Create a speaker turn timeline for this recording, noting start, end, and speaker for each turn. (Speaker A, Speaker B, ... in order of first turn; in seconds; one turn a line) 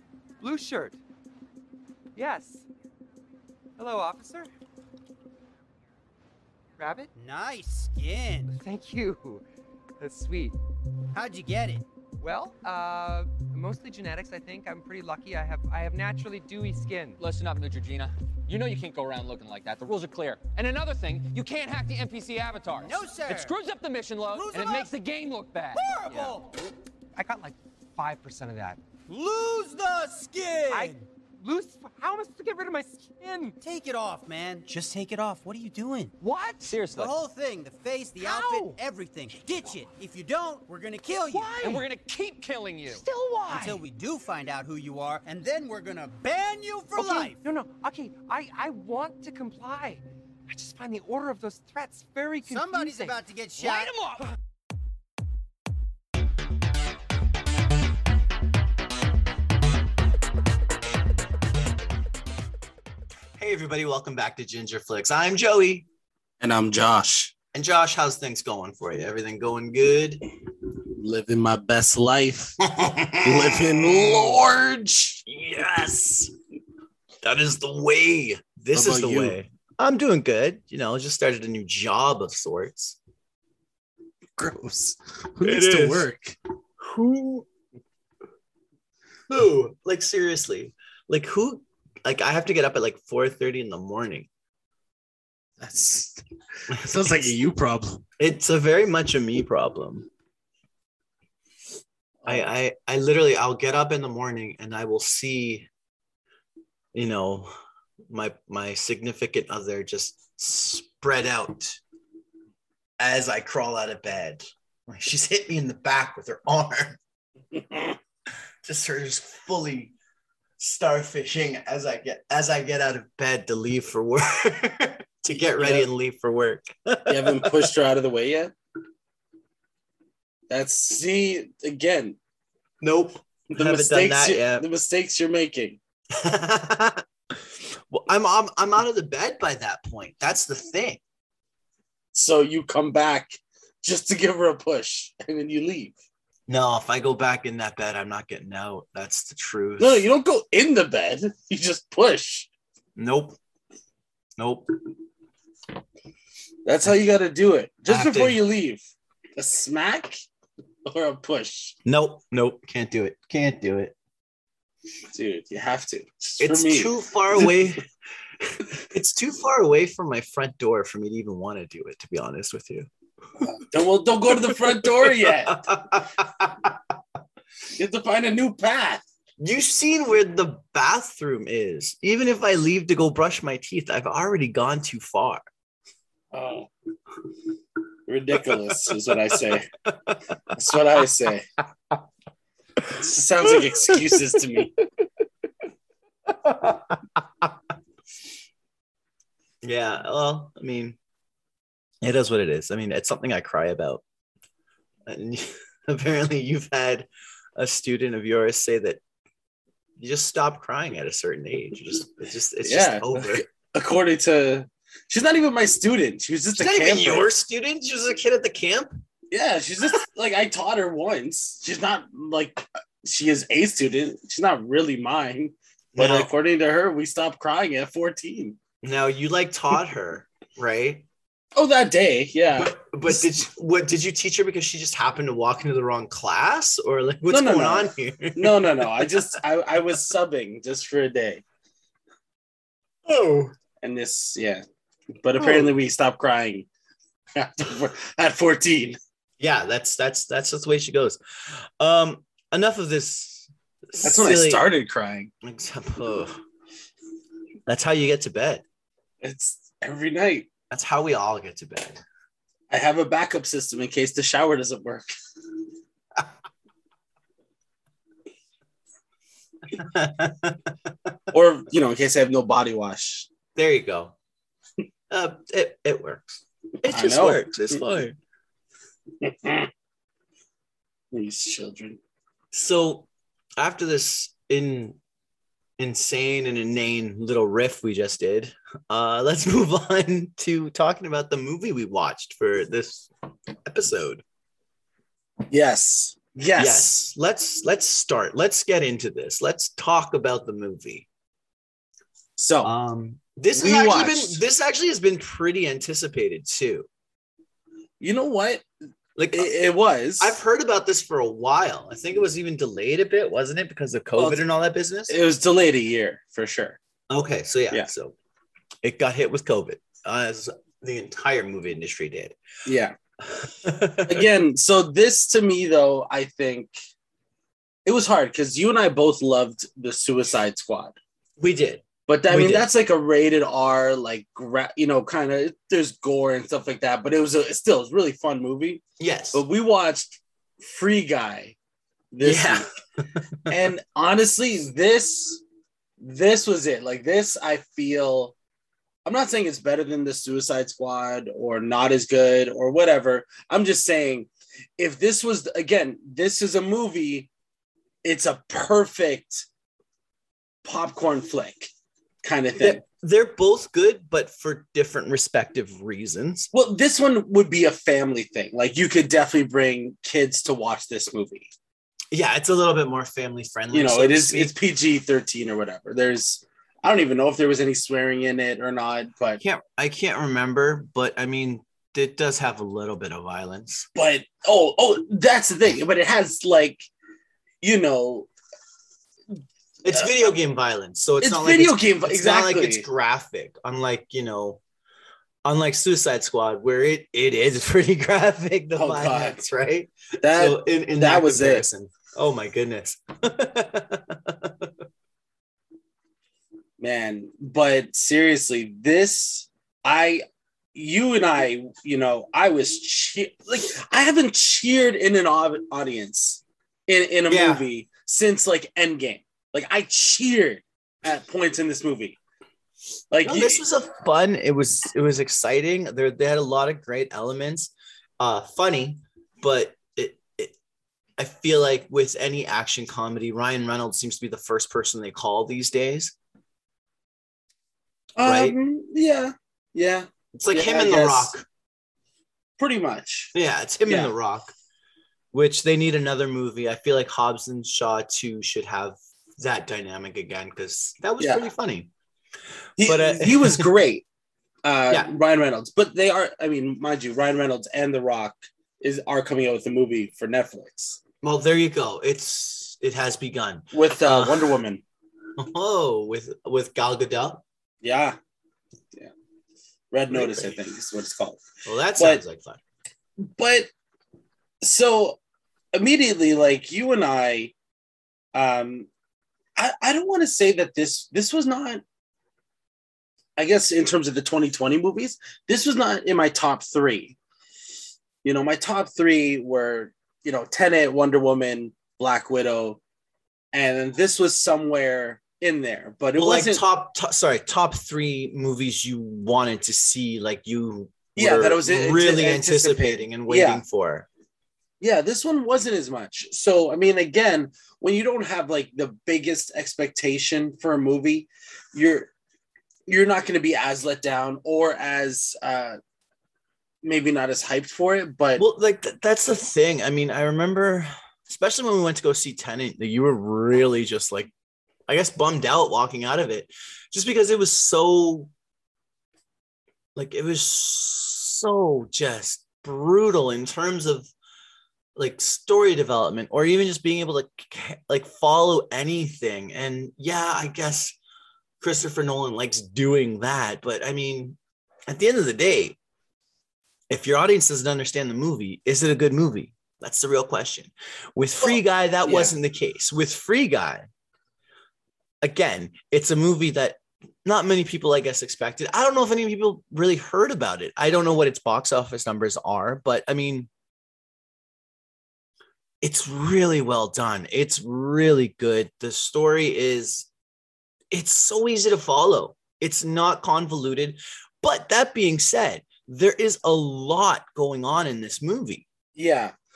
Speaker A: 0.4-1.0
Speaker A: 2.1-2.6
Speaker A: 3.8-4.5
Speaker A: 6.8-7.1
Speaker B: 7.1-8.6
Speaker A: 8.6-9.4
Speaker A: 10.0-10.6
Speaker B: 11.1-11.8
Speaker A: 12.2-17.2
Speaker C: 17.2-26.3
Speaker B: 22.8-23.6
Speaker B: 24.3-24.9
Speaker B: 25.7-26.6
Speaker A: 27.1-28.8
Speaker B: 29.1-31.1
Speaker A: 30.7-33.5
Speaker B: 33.6-36.1
Speaker A: 36.2-36.7
Speaker C: 36.6-37.1
Speaker B: 36.9-41.8
Speaker A: 38.2-38.8
Speaker A: 41.3-41.8
Speaker C: 41.6-43.0
Speaker A: 42.9-43.8
Speaker B: 43.5-47.4
Speaker A: 47.0-53.2
Speaker B: 52.4-53.9
Speaker C: 53.6-54.2
Speaker D: 63.4-65.8
Speaker E: 66.4-67.3
Speaker D: 67.5-70.2
Speaker E: 70.9-72.6
Speaker D: 72.7-74.4
Speaker E: 73.2-75.2
Speaker D: 75.3-76.3
Speaker D: 77.2-83.0
Speaker E: 78.7-79.3
Speaker E: 84.4-86.3
Speaker D: 85.4-86.1
Speaker D: 86.8-87.5
Speaker D: 89.3-94.3
Speaker E: 95.6-98.0
Speaker D: 98.2-100.1
Speaker D: 102.3-105.7
Speaker D: 106.9-107.5
Speaker D: 108.1-111.8
Speaker D: 113.0-117.0
Speaker D: 118.6-119.9
Speaker D: 120.6-127.7
Speaker E: 125.3-125.9
Speaker E: 127.1-128.5
Speaker E: 130.5-132.2
Speaker D: 132.8-134.7
Speaker E: 133.5-135.8
Speaker D: 136.1-137.0
Speaker D: 137.9-141.0
Speaker E: 142.1-146.0
Speaker D: 146.5-150.1
Speaker E: 149.8-152.5
Speaker D: 153.0-153.4
Speaker D: 154.4-154.7
Speaker E: 156.6-158.8
Speaker D: 157.9-158.4
Speaker E: 159.4-160.2
Speaker E: 160.8-161.8
Speaker D: 161.8-163.9
Speaker E: 165.1-167.6
Speaker D: 166.4-167.8
Speaker D: 168.4-172.9
Speaker E: 173.4-175.8
Speaker D: 174.4-176.7
Speaker E: 177.7-179.0
Speaker D: 179.4-185.4
Speaker E: 186.3-186.7
Speaker E: 188.1-189.7
Speaker D: 189.8-190.2
Speaker E: 190.5-191.4
Speaker E: 192.9-194.7
Speaker D: 193.6-194.1
Speaker D: 196.4-197.5
Speaker D: 199.6-201.0
Speaker D: 202.0-204.0
Speaker D: 205.1-209.0
Speaker D: 210.0-213.4
Speaker E: 212.6-217.3
Speaker D: 216.6-218.9
Speaker E: 219.3-228.6
Speaker D: 225.9-226.3
Speaker D: 228.8-231.0
Speaker E: 231.6-233.3
Speaker D: 232.6-239.3
Speaker E: 237.3-241.4
Speaker D: 243.1-243.5
Speaker E: 243.8-244.6
Speaker E: 245.2-246.7
Speaker D: 245.4-245.7
Speaker E: 247.3-249.0
Speaker D: 249.4-254.6
Speaker E: 254.0-255.3
Speaker D: 255.4-256.4
Speaker D: 257.7-258.6
Speaker E: 259.2-260.5
Speaker D: 260.7-262.0
Speaker E: 262.7-265.1
Speaker D: 269.8-270.7
Speaker E: 271.3-273.3
Speaker D: 273.6-274.1
Speaker D: 275.1-278.2
Speaker E: 276.9-277.8
Speaker E: 279.2-279.7
Speaker E: 281.1-282.0
Speaker D: 282.5-285.0
Speaker D: 285.8-293.1
Speaker D: 293.6-294.2
Speaker E: 295.5-297.0
Speaker D: 296.6-301.1
Speaker E: 302.4-302.7
Speaker D: 302.6-306.9
Speaker E: 303.5-304.4
Speaker E: 308.0-308.6
Speaker D: 309.2-309.5
Speaker E: 309.3-310.3
Speaker D: 310.2-315.1
Speaker E: 314.1-314.4
Speaker E: 315.1-316.8
Speaker D: 317.1-318.1
Speaker D: 318.8-322.4
Speaker E: 322.6-322.9
Speaker D: 323.2-324.2
Speaker E: 324.0-326.7
Speaker E: 327.9-331.0
Speaker D: 331.4-332.7
Speaker E: 332.1-338.8
Speaker D: 339.0-339.4
Speaker E: 339.3-341.5
Speaker E: 342.1-342.7
Speaker D: 342.2-342.6
Speaker D: 343.1-343.5
Speaker E: 343.5-345.4
Speaker E: 346.0-348.3
Speaker E: 349.0-357.3
Speaker E: 358.0-359.4
Speaker E: 360.6-361.7
Speaker E: 362.2-362.8
Speaker D: 362.6-366.5
Speaker E: 366.5-371.5
Speaker D: 372.1-374.5
Speaker E: 373.7-379.4
Speaker D: 379.4-383.9
Speaker E: 383.9-386.9
Speaker E: 387.6-388.3
Speaker D: 389.8-394.6
Speaker E: 391.2-392.9
Speaker D: 395.4-404.7
Speaker E: 398.7-399.4
Speaker E: 400.2-401.6
Speaker E: 406.8-410.2
Speaker E: 410.7-422.2
Speaker D: 417.3-417.6
Speaker E: 423.1-423.6
Speaker D: 423.2-430.5
Speaker D: 431.2-436.1
Speaker E: 438.2-441.3
Speaker D: 438.2-438.6
Speaker D: 440.3-441.4
Speaker E: 442.6-443.3
Speaker D: 443.3-444.5
Speaker E: 443.9-444.1
Speaker D: 445.3-451.9
Speaker E: 451.2-451.4
Speaker E: 452.8-454.0
Speaker D: 452.8-453.6
Speaker E: 454.6-461.0
Speaker D: 461.2-464.6
Speaker E: 463.7-464.8
Speaker D: 465.4-467.4
Speaker E: 467.8-468.2
Speaker E: 469.9-471.4
Speaker D: 470.1-470.5
Speaker D: 471.6-472.6
Speaker E: 472.0-472.2
Speaker E: 473.2-473.7
Speaker E: 474.6-475.2
Speaker E: 475.7-477.5
Speaker E: 478.3-478.9
Speaker E: 479.6-481.8
Speaker E: 483.4-487.1
Speaker E: 488.2-492.8
Speaker E: 493.5-496.6
Speaker D: 496.1-504.1
Speaker E: 501.1-503.6
Speaker E: 504.8-512.1
Speaker E: 512.9-515.8
Speaker E: 516.8-518.4
Speaker D: 518.4-524.3
Speaker D: 524.9-528.3
Speaker D: 530.0-534.1
Speaker D: 535.0-541.0
Speaker D: 541.6-544.4
Speaker D: 544.9-545.8
Speaker D: 546.9-553.9
Speaker E: 551.4-552.3
Speaker D: 555.2-563.5
Speaker D: 565.8-570.1
Speaker D: 570.9-578.6
Speaker E: 578.9-579.3